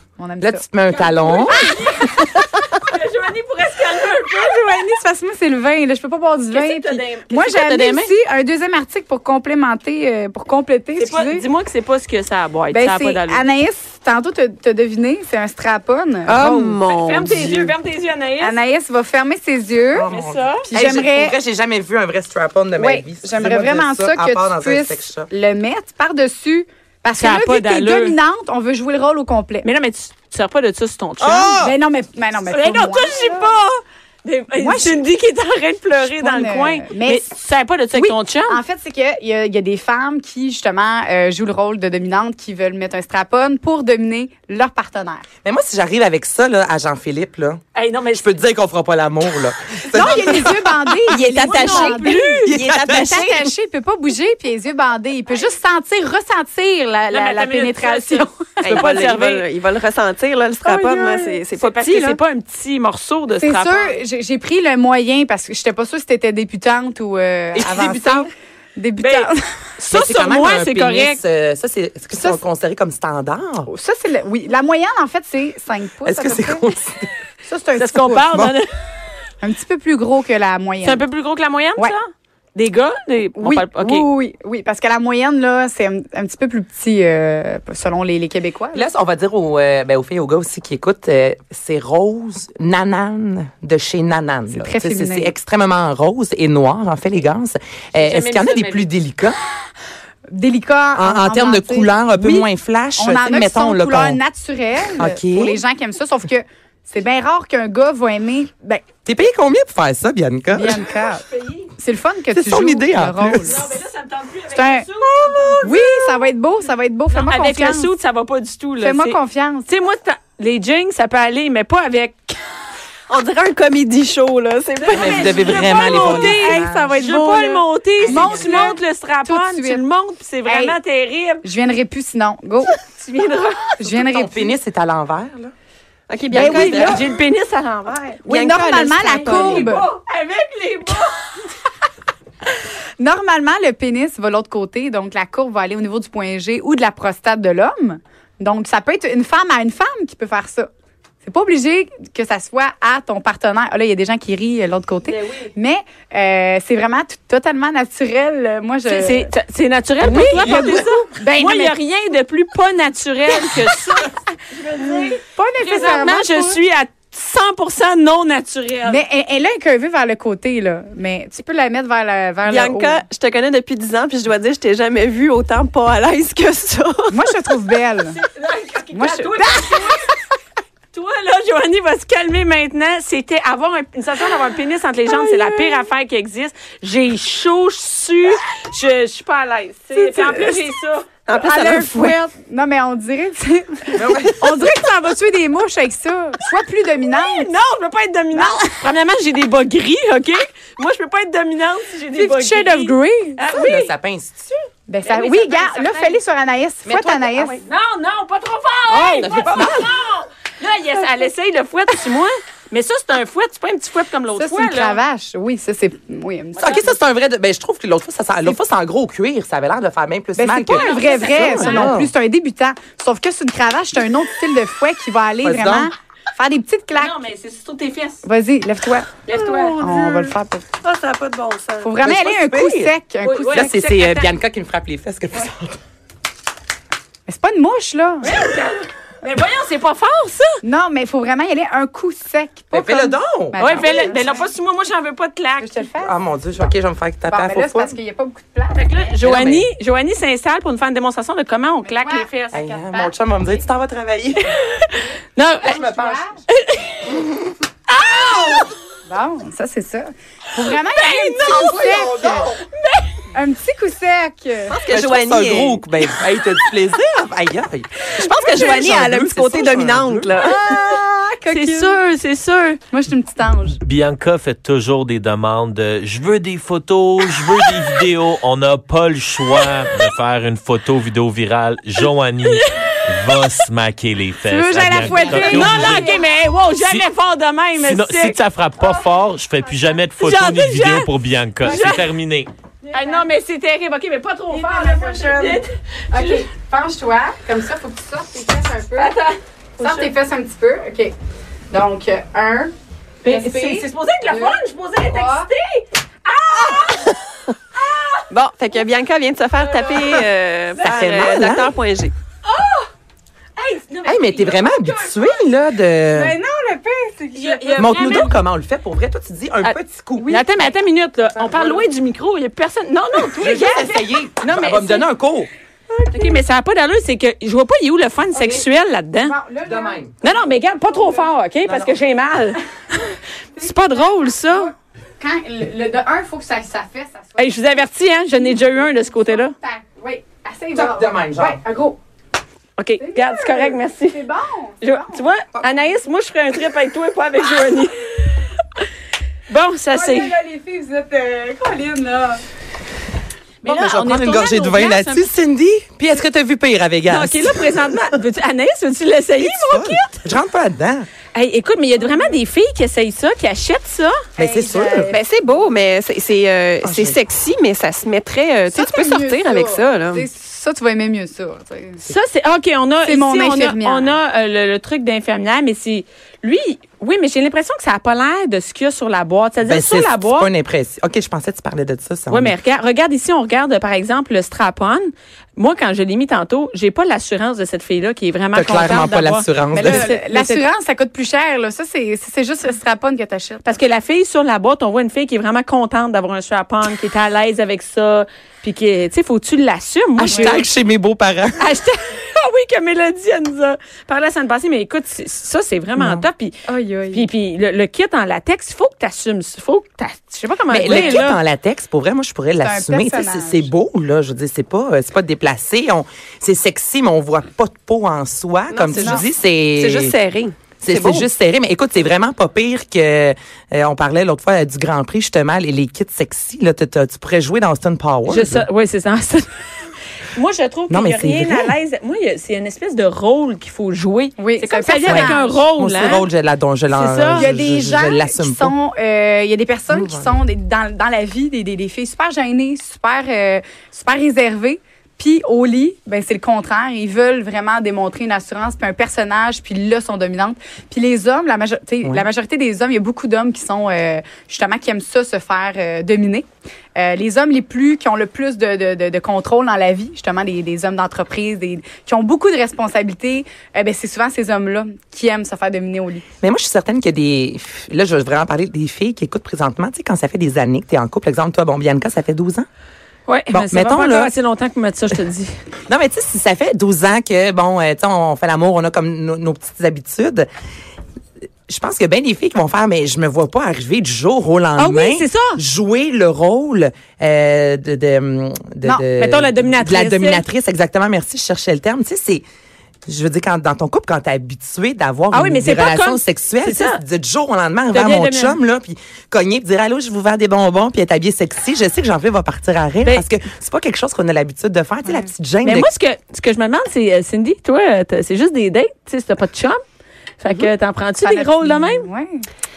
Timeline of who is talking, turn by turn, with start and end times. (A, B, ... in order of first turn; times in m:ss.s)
0:00.2-0:02.4 A
0:00.4-0:01.7 B
0:01.1-0:04.7 C
0:04.3-0:11.4 A
0:06.5-0:08.1 C
0:11.0-0:13.4 C
0:12.7-0:16.8 A
0:16.2-0:17.7 D
0:16.8-0:18.6 C
0:18.4-0:20.1 A
0:19.9-0:25.3 B
0:20.1-0:20.7 C
0:20.7-0:21.4 A
0:22.8-0:29.7 A
0:27.2-0:28.2 C
0:29.6-0:31.6 C
0:31.2-0:31.8 B
0:31.6-0:33.5 A
0:32.5-0:38.6 C
0:34.6-0:35.0 A
0:36.0-0:37.3 A
0:37.9-0:45.2 A
0:45.4-0:50.7 B
0:47.8-0:48.4 C
0:49.9-0:58.8 A
0:51.1-0:53.5 D
0:51.2-0:52.6 C
0:52.4-0:53.2 B
0:57.1-0:59.5 C
0:58.6-1:02.2 D
1:00.6-1:04.0 C
1:03.4-1:09.5 A
1:07.6-1:08.3 B
1:09.0-1:11.2 C
1:09.9-1:13.7 B
1:12.1-1:12.4 A
1:13.7-1:16.7 A
1:16.0-1:17.1 B
1:17.5-1:18.3 A
1:17.8-1:18.7 C
1:19.4-1:21.0 A
1:20.8-1:24.0 C
1:23.4-1:28.8 A
1:28.7-1:39.4 B
1:34.5-1:35.3 A
1:37.9-1:38.9 C
1:40.3-1:48.8 A
1:41.0-1:44.2 B
1:45.0-1:45.6 B
1:49.0-1:50.8 B
1:50.5-1:51.2 A
1:51.1-1:51.7 C
1:51.8-1:53.6 A
1:52.3-1:53.6 B
1:53.4-1:55.7 C
1:54.5-1:54.9 A
1:55.2-1:55.9 D
1:55.6-1:57.9 A
1:57.1-2:02.4 C
1:58.8-1:59.7 A
2:03.1-2:06.4 D
2:04.8-2:11.4 C
2:04.9-2:07.0 B
2:05.9-2:06.6 A
2:07.0-2:07.6 D
2:08.0-2:09.8 A
2:08.0-2:08.8 B
2:10.4-2:10.8 A
2:11.4-2:12.8 A
2:12.9-2:13.8 C
2:13.8-2:14.6 A
2:13.9-2:15.5 B
2:16.1-2:17.0 D
2:16.3-2:17.0 B
2:16.3-2:21.1 C
2:16.7-2:17.0 A
2:18.3-2:19.9 A
2:18.3-2:19.7 D
2:23.0-2:30.7 A
2:31.2-2:39.3 A
2:35.1-2:35.5 C
2:38.9-2:49.0 C
2:40.1-2:41.8 A
2:40.2-2:40.8 B
2:45.3-2:46.6 A
2:48.9-2:53.0 A
2:52.5-2:57.3 D
2:57.1-2:58.2 A
2:58.1-3:00.1 C
2:58.9-3:00.0 A
3:00.9-3:11.1 C
3:09.9-3:10.6 A
3:11.3-3:12.2 D
3:11.3-3:17.5 A
3:14.0-3:14.3 B
3:17.1-3:23.9 C
3:18.3-3:18.8 A
3:22.1-3:23.4 A
3:23.5-3:24.5 B
3:24.9-3:27.6 A
3:25.0-3:26.2 C
3:26.9-3:27.3 B
3:27.3-3:35.0 C
3:28.9-3:29.9 B
3:34.3-3:37.0 A
3:36.6-3:42.1 B
3:40.4-3:47.2 A
3:40.7-3:42.1 C
3:45.4-3:45.9 B
3:46.9-3:48.2 C
3:48.2-3:50.7 A
3:49.2-3:50.3 C
3:51.3-3:51.7 D
3:51.8-3:53.8 A
3:52.0-3:52.9 B
3:53.2-3:54.3 C
3:53.5-3:55.8 B
3:57.3-3:58.4 A
3:58.2-4:00.6 C
4:00.6-4:04.5 A
4:02.7-4:03.9 B
4:03.6-4:05.8 C
4:05.6-4:06.7 A
4:06.0-4:08.0 B
4:07.3-4:09.2 A
4:08.8-4:12.6 C
4:09.2-4:09.7 B
4:11.8-4:13.6 A
4:12.5-4:14.6 B
4:14.8-4:15.8 C
4:15.6-4:16.4 A
4:15.7-4:16.2 B
4:16.5-4:17.1 C
4:17.9-4:18.7 C
4:19.1-4:22.5 A
4:21.0-4:21.8 C
4:21.4-4:22.6 B
4:23.3-4:24.8 A
4:24.7-4:25.8 D
4:24.9-4:30.3 B
4:28.1-4:30.6 D
4:30.4-4:32.0 A
4:31.5-4:32.8 C
4:32.9-4:33.8 A
4:33.8-4:46.1 E
4:42.5-4:43.4 C
4:44.4-4:46.3 A
4:44.9-4:48.4 C
4:46.8-4:47.1 E
4:47.8-4:52.5 E
4:50.2-4:52.1 C
4:52.9-4:53.2 A
4:52.9-4:56.5 C
4:54.5-4:59.1 A
4:59.0-5:00.1 C
4:59.8-5:01.1 A
5:01.7-5:02.7 A
5:03.2-5:07.2 C
5:03.2-5:05.5 A
5:07.8-5:08.2 C
5:08.3-5:12.1 D
5:09.6-5:10.2 C
5:10.8-5:11.2 C
5:10.8-5:11.7 B
5:12.5-5:12.8 C
5:13.6-5:15.4 C
5:14.0-5:16.4 B
5:16.1-5:18.3 A
5:17.3-5:18.4 C
5:17.7-5:20.4 B
5:19.6-5:25.1 C
5:20.2-5:20.8 A
5:21.4-5:21.8 B
5:23.4-5:25.5 B
5:26.0-5:29.4 C
5:26.1-5:26.4 A
5:28.3-5:28.6 A
5:29.2-5:31.3 A
5:29.6-5:30.2 B
5:30.2-5:32.6 C
5:31.6-5:31.9 B
5:33.6-5:37.7 A
5:33.6-5:34.7 C
5:37.4-5:39.6 C
5:38.3-5:42.0 A
5:40.8-5:41.6 B
5:42.8-5:44.2 C
5:43.0-5:45.2 A
5:44.8-5:48.4 C
5:49.5-5:50.4 C
5:49.9-5:52.4 A
5:53.6-5:55.3 C
5:53.6-5:57.6 B
5:57.1-6:00.2 C
5:59.4-6:01.1 B
6:01.3-6:04.2 C
6:04.4-6:05.1 B
6:04.4-6:05.3 A
6:05.1-6:10.3 D
6:06.8-6:07.2 B
6:08.7-6:12.0 A
6:12.0-6:20.5 C
6:13.0-6:14.2 A
6:19.6-6:22.5 B
6:22.3-6:30.6 C
6:28.5-6:30.1 B
6:29.8-6:33.7 A
6:33.6-6:40.6 C
6:40.2-6:41.6 B
6:40.2-6:40.6 A
6:41.6-6:46.6 C
6:46.0-6:46.3 B
6:46.7-6:47.3 A
6:47.1-6:51.4 C
6:50.7-7:00.2 B
6:50.9-6:51.2 A
6:52.6-6:53.7 A
6:58.7-7:01.3 D
7:00.8-7:08.7 B
7:08.3-7:09.5 C
7:10.3-7:16.3 C
7:10.9-7:11.7 B
7:14.4-7:16.2 A
7:15.1-7:18.7 B
7:16.9-7:17.5 C
7:17.3-7:46.2 A
7:19.9-7:20.4 B
7:46.4-7:52.7 B
7:53.3-7:55.6 C
7:53.5-7:54.3 B
7:55.9-8:00.5 B
8:01.7-8:12.4 B
8:04.8-8:05.6 C
8:09.2-8:10.4 C
8:13.1-8:25.9 B
8:15.3-8:17.0 C
8:17.9-8:18.6 C
8:25.6-8:29.8 C
8:30.4-8:32.1 C
8:31.2-8:32.5 A